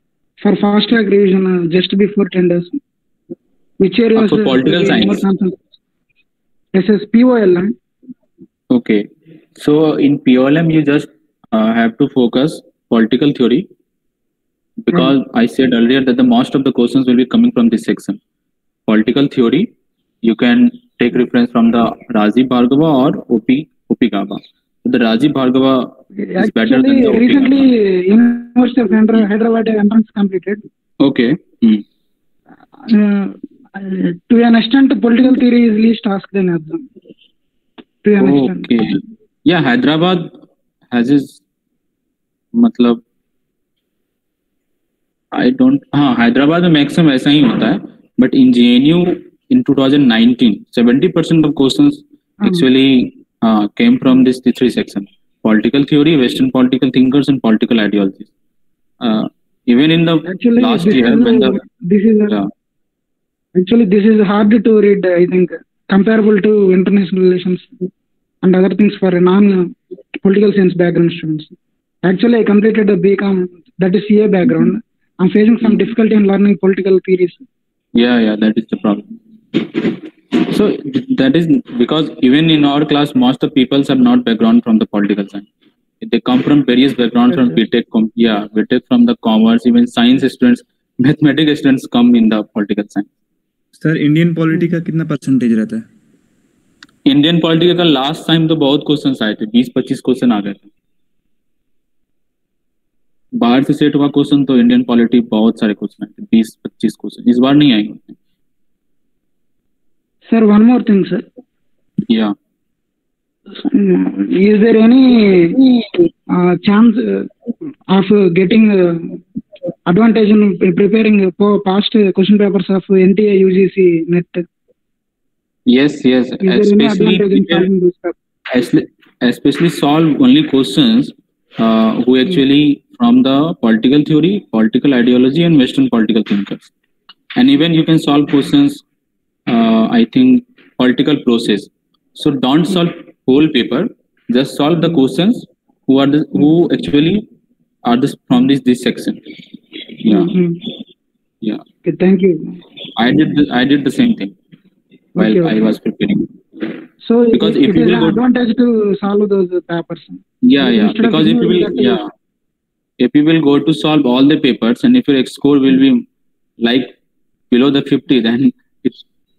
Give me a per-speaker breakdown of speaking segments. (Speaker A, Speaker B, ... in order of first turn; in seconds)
Speaker A: 0.4-2.8, 3.8-5.6, 6.7-7.7, 26.2-30.6, 32.8-36.9, 38.0-38.7, 60.3-62.4, 63.5-67.9, 68.4-71.5, 72.1-77.4, 87.3-87.5, 110.3-111.2, 113.6-115.6, 116.3-117.3, 117.9-119.2, 119.9-124.5, 126.4-128.2, 150.1-150.6, 151.8-152.6, 155.2-155.7, 157.0-162.0
Speaker B: 4.2-5.2, 8.7-9.0, 9.6-13.7, 14.8-18.2, 18.9-19.7, 20.2-27.7, 31.0-31.8, 38.2-40.4, 40.9-41.4, 42.5-43.0, 45.3-58.3, 59.0-61.6, 75.6-75.9, 78.0-85.5, 86.0-93.1, 97.1-100.6, 103.4-108.2, 112.1-112.3, 125.7-127.7, 128.5-136.7, 137.4-138.8, 139.5-147.2, 147.8-149.2, 149.9-150.3, 152.9-154.3, 155.2-156.3, 157.3-158.2, 160.4-162.0, 163.0-166.0, 166.6-166.9, 167.5-169.0
Speaker C: 93.8-95.8